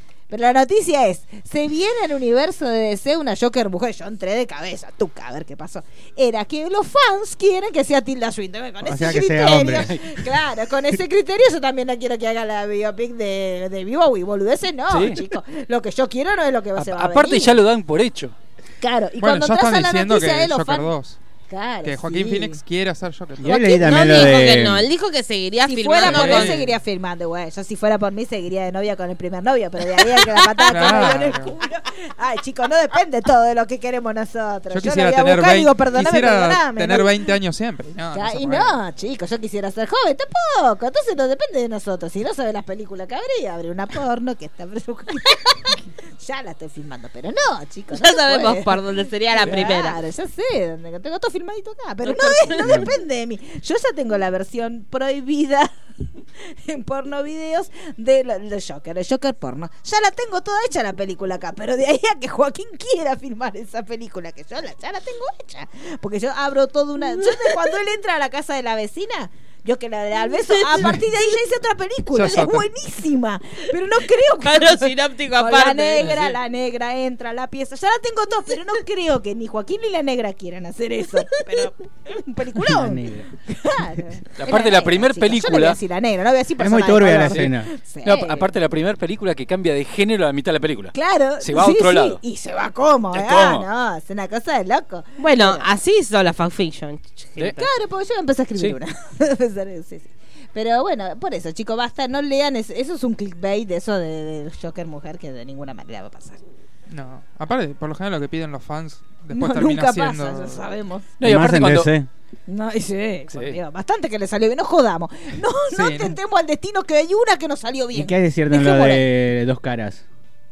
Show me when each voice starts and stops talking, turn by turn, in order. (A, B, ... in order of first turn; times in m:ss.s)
0:00.3-0:17.6 A
0:08.8-0:10.3 B
0:14.9-0:15.2 C
0:16.8-0:18.3 C
0:18.8-0:20.9 A
0:19.2-0:21.2 D
0:21.5-0:22.6 A
0:21.8-0:23.6 D
0:23.4-0:24.9 B
0:23.4-0:24.4 A
0:23.5-0:26.6 E
0:25.6-0:37.2 A
0:26.0-0:26.7 D
0:30.6-0:31.2 E
0:30.6-0:31.5 D
0:34.7-0:38.7 D
0:38.1-0:55.7 A
0:47.9-0:50.0 E
0:52.0-0:52.8 E
0:52.6-0:52.9 B
0:56.4-1:28.5 A
1:10.2-1:11.3 E
1:12.1-1:12.7 D
1:14.4-1:16.3 E
1:22.5-1:23.3 B
1:24.4-1:25.8 C
1:26.6-1:27.7 B
1:27.1-1:32.2 C
1:30.9-1:35.7 A
1:33.1-1:33.6 C
1:35.2-1:37.6 E
1:37.6-1:46.4 A
1:46.9-1:50.7 D
1:49.3-1:51.1 A
1:51.2-1:51.9 C
1:51.2-1:52.1 B
1:52.5-1:59.0 A
1:53.3-1:53.6 C
1:55.7-1:56.2 D
1:57.9-2:00.0 B